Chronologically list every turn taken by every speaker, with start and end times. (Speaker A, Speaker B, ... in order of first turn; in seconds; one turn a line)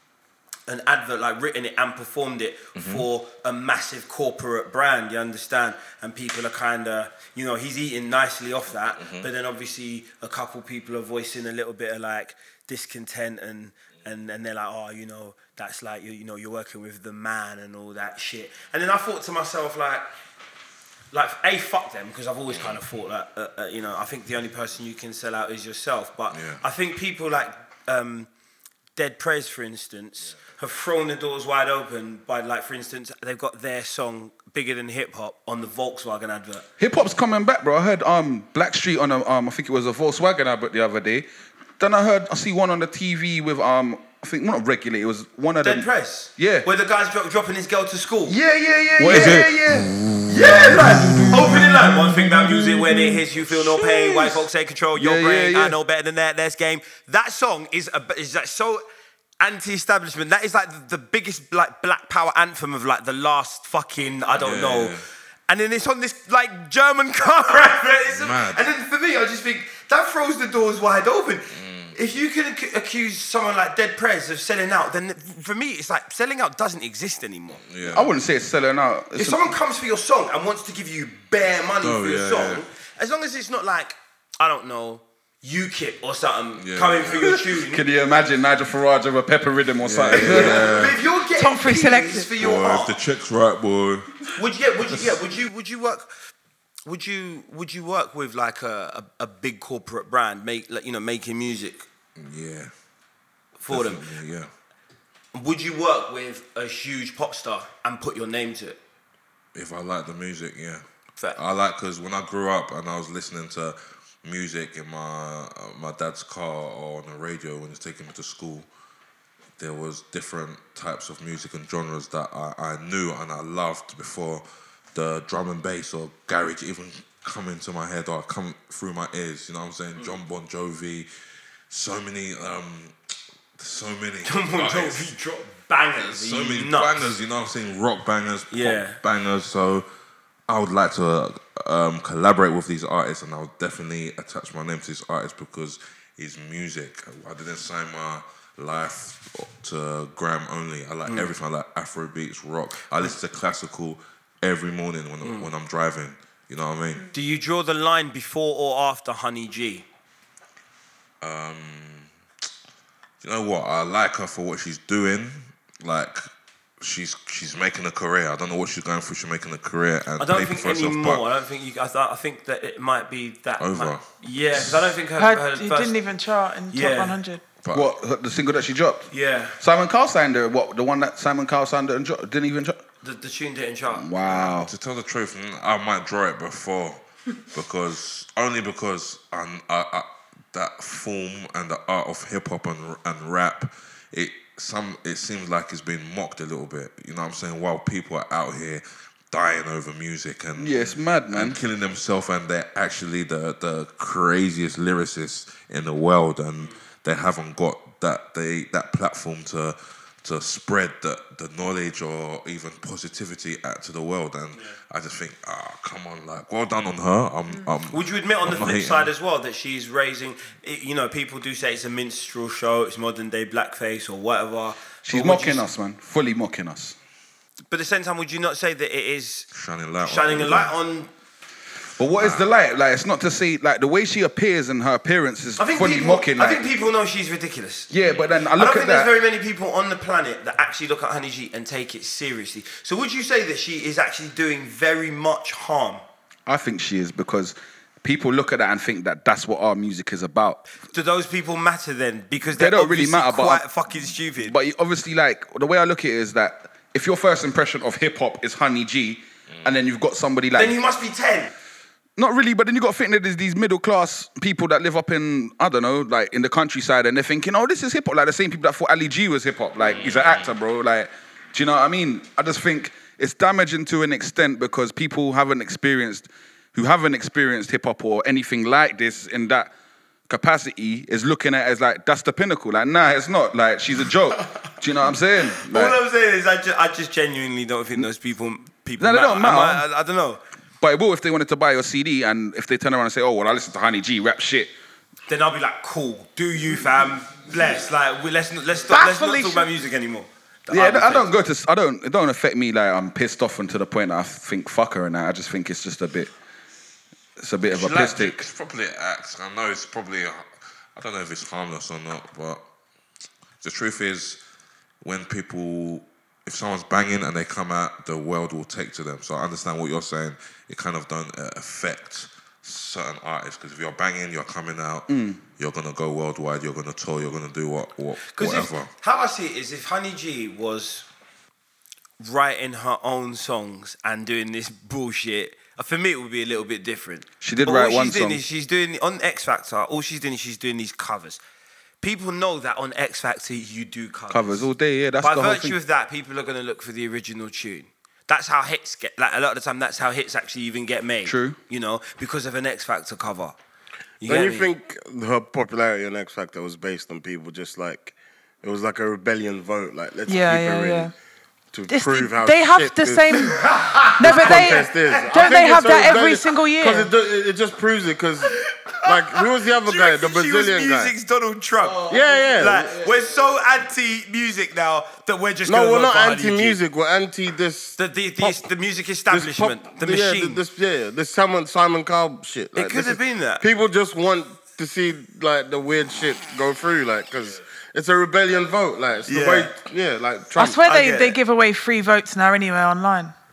Speaker A: 0.7-20.1
Speaker B: 2.8-3.0
Speaker B: 9.0-9.3
Speaker A: 21.1-28.3
Speaker B: 22.5-22.8
Speaker B: 26.3-26.6
Speaker A: 28.9-36.6
Speaker C: 36.8-41.3
Speaker C: 41.8-46.6
Speaker A: 45.6-48.4
Speaker C: 48.3-51.7
Speaker B: 49.0-51.7
Speaker A: 49.0-49.4
Speaker A: 50.3-58.8
Speaker C: 54.9-55.8
Speaker A: 59.4-64.9
Speaker B: 64.4-65.0
Speaker A: 65.5-77.6
Speaker B: 68.1-68.6
Speaker B: 71.5-71.9
Speaker B: 77.7-78.1
Speaker C: 77.9-79.5
Speaker A: 79.1-87.8
Speaker B: 81.8-82.6
Speaker B: 86.6-87.3
Speaker C: 87.5-90.9
Speaker B: 89.8-91.0
Speaker A: 90.1-92.9
Speaker D: 91.3-92.3
Speaker B: 92.4-94.1
Speaker A: 94.3-96.1
Speaker A: 96.8-101.8
Speaker B: 102.2-102.7
Speaker A: 103.6-104.0
Speaker B: 103.7-104.5
Speaker A: 105.3-108.8
Speaker B: 109.5-110.8
Speaker B: 111.3-118.7
Speaker B: 119.6-131.1
Speaker B: 131.7-132.9
Speaker B: 133.6-135.1
Speaker A: 134.2-137.1
Speaker B: 136.0-139.8
Speaker A: 138.5-139.0
Speaker B: 140.5-157.1
Speaker A: 155.2-155.5
Speaker A: 157.1-159.8
Speaker B: 161.2-162.1
Speaker B: 163.2-166.3
Speaker B: 166.8-171.2
Speaker A: 170.2-176.0
Speaker B: 173.6-174.9
Speaker D: 175.2-177.4
Speaker A: 176.7-177.2
Speaker B: 177.6-177.9
Speaker C: 177.7-182.8
Speaker A: 179.1-179.6
Speaker A: 183.0-184.1
Speaker C: 183.9-184.7
Speaker B: 184.2-187.0
Speaker B: 187.5-219.1
Speaker C: 200.5-201.6
Speaker A: 217.9-225.6
Speaker C: 225.0-226.9
Speaker A: 227.7-229.5
Speaker B: 229.5-230.7
Speaker A: 230.0-231.1
Speaker C: 232.0-236.6
Speaker B: 232.1-232.5
Speaker A: 235.6-237.9
Speaker C: 237.9-239.1
Speaker A: 238.5-246.0
Speaker C: 246.5-250.6
Speaker A: 250.8-254.5
Speaker C: 252.6-253.6
Speaker C: 254.4-260.8
Speaker A: 260.5-261.5
Speaker C: 262.2-279.7
Speaker B: 269.9-270.4
Speaker C: 280.3-286.0
Speaker A: 285.5-290.4
Speaker C: 289.0-289.8
Speaker C: 290.8-294.7
Speaker A: 295.3-301.3
Speaker D: 298.9-299.7
Speaker C: 300.7-306.3
Speaker C: 307.4-308.4
Speaker B: 307.7-312.6
Speaker B: 313.6-314.4
Speaker B: 315.0-328.9
Speaker C: 325.1-325.4
Speaker A: 328.3-331.1
Speaker A: 332.2-341.4
Speaker C: 337.4-338.4
Speaker A: 342.0-344.7
Speaker C: 344.3-345.8
Speaker A: 345.2-353.6
Speaker C: 351.2-351.6
Speaker A: 354.2-354.7
Speaker E: 354.2-361.1
Speaker D: 360.3-361.1
Speaker E: 361.7-371.1
Speaker D: 361.9-363.6
Speaker A: 363.6-364.9
Speaker D: 364.2-367.1
Speaker A: 369.9-376.8
Speaker C: 371.8-373.2
Speaker E: 372.1-373.0
Speaker E: 375.6-378.6
Speaker A: 378.0-380.6
Speaker E: 379.3-390.8
Speaker A: 382.7-383.6
Speaker A: 389.2-389.7
Speaker D: 390.5-393.3
Speaker A: 390.8-391.4